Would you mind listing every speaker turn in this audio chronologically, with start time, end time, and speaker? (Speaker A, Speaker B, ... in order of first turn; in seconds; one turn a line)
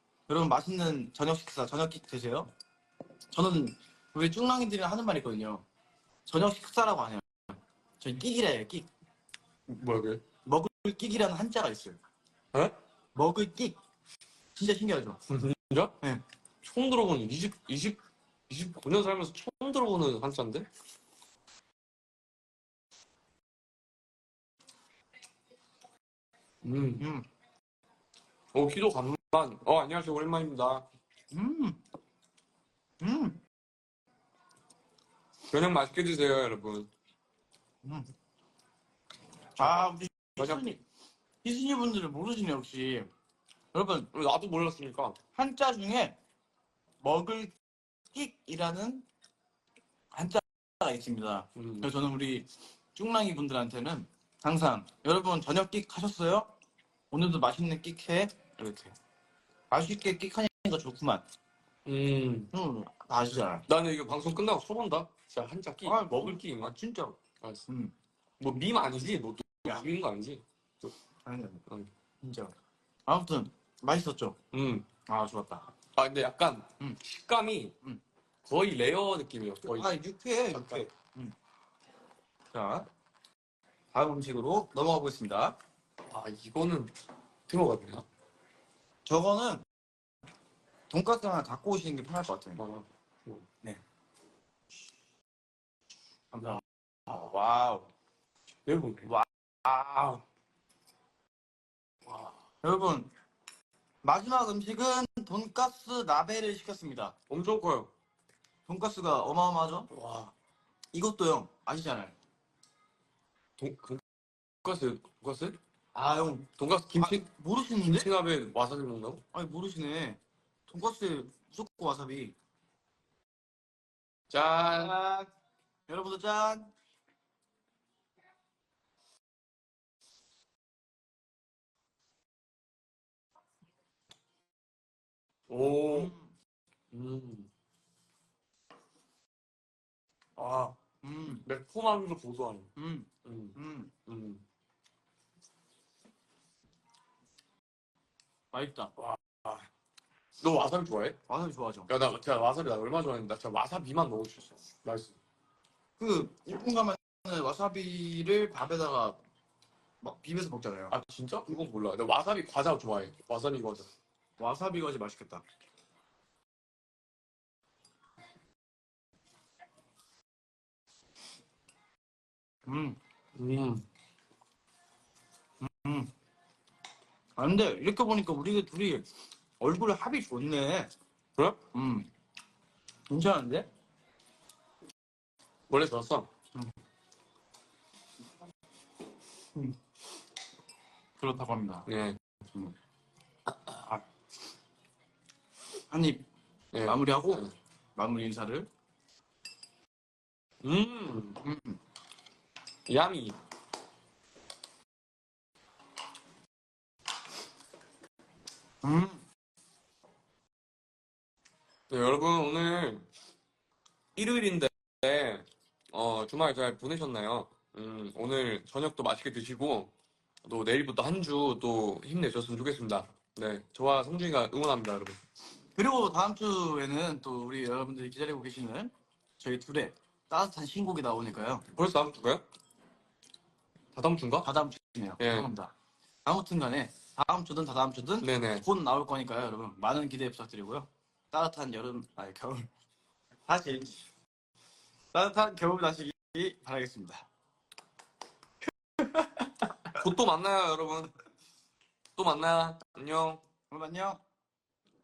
Speaker A: 0.3-2.5
Speaker A: 3.3-5.6
Speaker A: 6.2-8.9
Speaker B: 9.7-10.2
Speaker A: 10.4-12.0
Speaker A: 13.1-13.8
Speaker A: 14.5-15.2
Speaker B: 15.3-15.9
Speaker B: 16.6-20.7
Speaker B: 26.6-27.0
Speaker A: 27.0-27.3
Speaker B: 28.5-30.9
Speaker A: 31.3-31.8
Speaker A: 33.0-33.4
Speaker B: 35.5-36.9
Speaker A: 37.8-38.1
Speaker A: 39.5-40.8
Speaker B: 40.4-40.6
Speaker A: 41.4-43.1
Speaker A: 43.7-44.1
Speaker B: 44.1-45.2
Speaker A: 45.3-46.1
Speaker A: 47.0-47.5
Speaker A: 48.1-49.0
Speaker A: 50.1-56.5
Speaker B: 51.5-51.9
Speaker A: 57.1-58.9
Speaker A: 59.7-61.2
Speaker B: 61.9-62.5
Speaker A: 62.5-63.6
Speaker B: 63.7-66.8
Speaker A: 65.8-67.2
Speaker A: 67.7-67.9
Speaker B: 68.4-70.9
Speaker A: 71.2-71.6
Speaker A: 72.2-72.5
Speaker A: 73.1-74.3
Speaker B: 74.5-74.8
Speaker A: 75.1-75.7
Speaker B: 75.9-77.7
Speaker B: 78.4-79.9
Speaker A: 79.6-81.3
Speaker B: 80.5-80.8
Speaker A: 82.5-82.9
Speaker A: 83.9-85.5
Speaker B: 86.1-86.9
Speaker B: 87.5-88.0
Speaker A: 89.0-89.6
Speaker A: 90.9-92.6
Speaker B: 92.6-93.4
Speaker A: 96.3-97.9
Speaker B: 98.7-99.1
Speaker A: 99.0-100.2
Speaker B: 102.1-102.3
Speaker A: 102.6-103.1
Speaker A: 104.0-107.1
Speaker B: 107.3-107.9
Speaker A: 108.7-109.9
Speaker B: 109.9-110.3
Speaker A: 110.9-112.1
Speaker B: 113.6-114.0
Speaker B: 114.6-115.6
Speaker A: 115.9-118.1
Speaker B: 116.6-117.2
Speaker B: 117.8-119.2
Speaker A: 119.3-122.3
Speaker B: 124.3-125.0
Speaker A: 124.7-125.3
Speaker A: 125.9-126.7
Speaker B: 135.5-136.1
Speaker A: 135.9-136.3
Speaker B: 136.9-137.5
Speaker B: 140.4-140.7
Speaker A: 141.0-141.4
Speaker B: 141.4-142.7
Speaker A: 142.8-143.9
Speaker B: 143.2-144.4
Speaker A: 148.5-148.9
Speaker B: 149.0-149.7
Speaker B: 150.4-151.2
Speaker A: 151.3-151.9
Speaker B: 151.9-155.2
Speaker A: 156.0-159.2
Speaker A: 160.0-160.9
Speaker B: 160.9-163.9
Speaker A: 164.4-165.4
Speaker A: 172.7-173.0
Speaker B: 173.3-173.8
Speaker A: 175.6-176.1
Speaker A: 177.4-179.0
Speaker A: 179.6-180.9
Speaker A: 181.7-182.1
Speaker A: 183.1-183.7
Speaker B: 185.7-186.3
Speaker A: 191.2-191.9
Speaker B: 191.8-192.2
Speaker A: 195.9-196.2
Speaker B: 196.7-197.5
Speaker A: 196.8-198.7
Speaker B: 200.6-201.4
Speaker A: 201.4-201.8
Speaker B: 202.9-203.4
Speaker A: 208.8-209.2
Speaker B: 211.9-213.1
Speaker B: 214.2-219.9
Speaker B: 220.4-225.2
Speaker A: 225.8-231.7
Speaker B: 231.7-232.4
Speaker B: 233.9-234.5
Speaker A: 234.4-235.7
Speaker B: 235.2-235.5
Speaker A: 236.2-242.7
Speaker B: 238.2-238.6
Speaker A: 243.5-244.0
Speaker A: 245.1-247.3
Speaker A: 249.0-249.3
Speaker B: 249.9-251.1
Speaker B: 252.2-253.4
Speaker A: 253.7-254.2